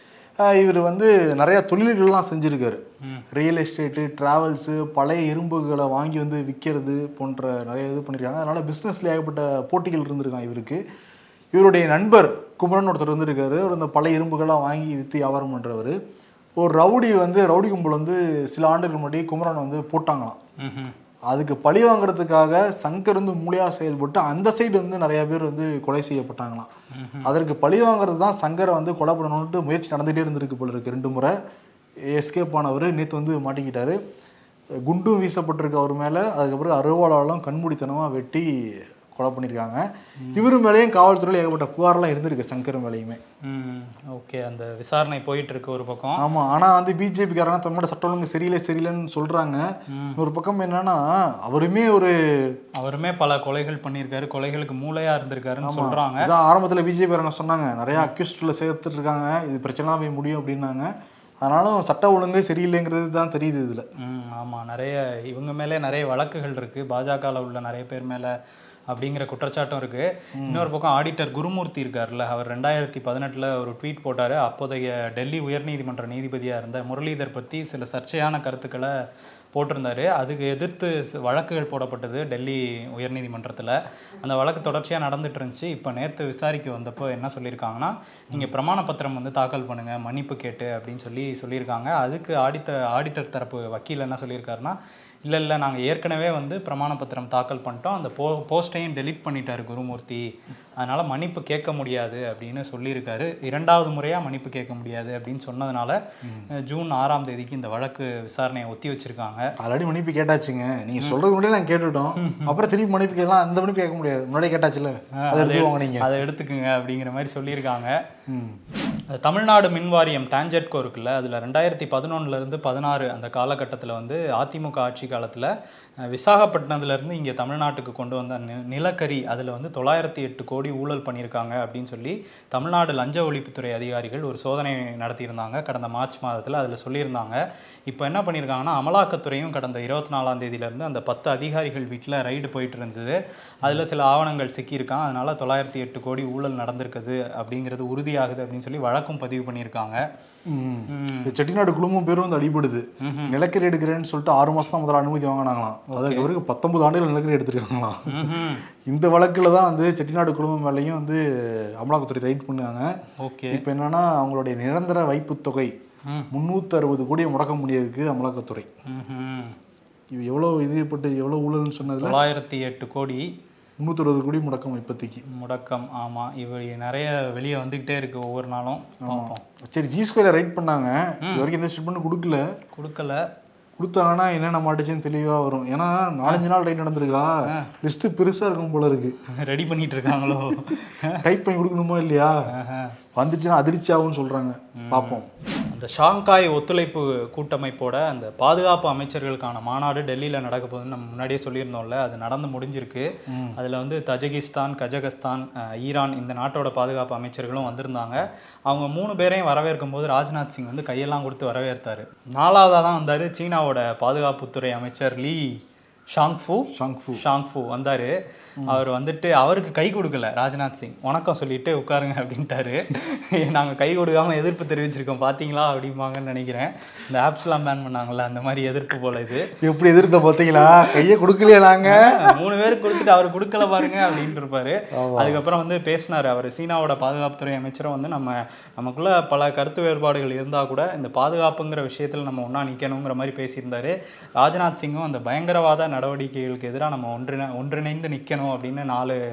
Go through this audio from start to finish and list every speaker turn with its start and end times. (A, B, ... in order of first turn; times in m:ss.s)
0:00.4-0:02.8 A
0:03.3-0:10.8 A
0:11.5-0:16.0 A
0:16.6-0:20.4 A
0:20.6-0:20.9 B
0:21.3-0:26.7 A
0:26.9-0:27.3 B
0:27.2-0:31.4 A
0:32.1-0:34.0 A
0:34.9-0:38.5 A
0:39.1-0:43.2 A
0:40.2-0:40.5 B
0:43.4-0:46.2 B
0:46.2-0:52.6 A
0:49.9-0:50.2 B
0:52.8-0:56.3 B
0:55.6-1:03.8 A
1:04.0-1:08.3 B
1:08.9-1:18.9 B
1:10.4-1:10.7 A
1:19.5-1:40.2 B
1:40.8-1:46.0 B
1:46.2-1:46.5 A
1:46.6-1:49.5 B
1:49.6-1:56.1 A
1:52.2-1:52.5 B
1:55.2-1:58.0 B
1:58.3-1:58.6 A
1:59.1-2:05.5 B
2:06.1-2:30.0 B
2:30.5-2:43.0 A
2:30.9-2:31.4 B
2:33.0-2:33.4 B
2:35.9-2:36.3 B
2:38.1-2:38.6 B
2:43.2-2:43.6 B
2:43.5-2:45.7 A
2:46.3-2:48.7 A
2:48.9-2:49.6 B
2:50.1-2:52.2 A
2:51.9-2:53.3 B
2:53.8-2:55.2 A
2:55.3-2:59.4 B
2:59.0-3:02.4 A
3:02.7-3:03.2 B
3:03.8-3:09.2 A
3:09.3-3:11.2 B
3:11.2-3:12.4 A
3:12.5-3:13.0 B
3:13.2-3:15.3 A
3:14.8-3:35.5 B
3:23.3-3:23.6 A
3:36.1-3:38.1 B
3:36.7-3:37.2 A
3:38.7-3:49.5 B
3:49.6-3:52.2 A
3:51.8-4:09.2 B
3:55.0-3:55.4 A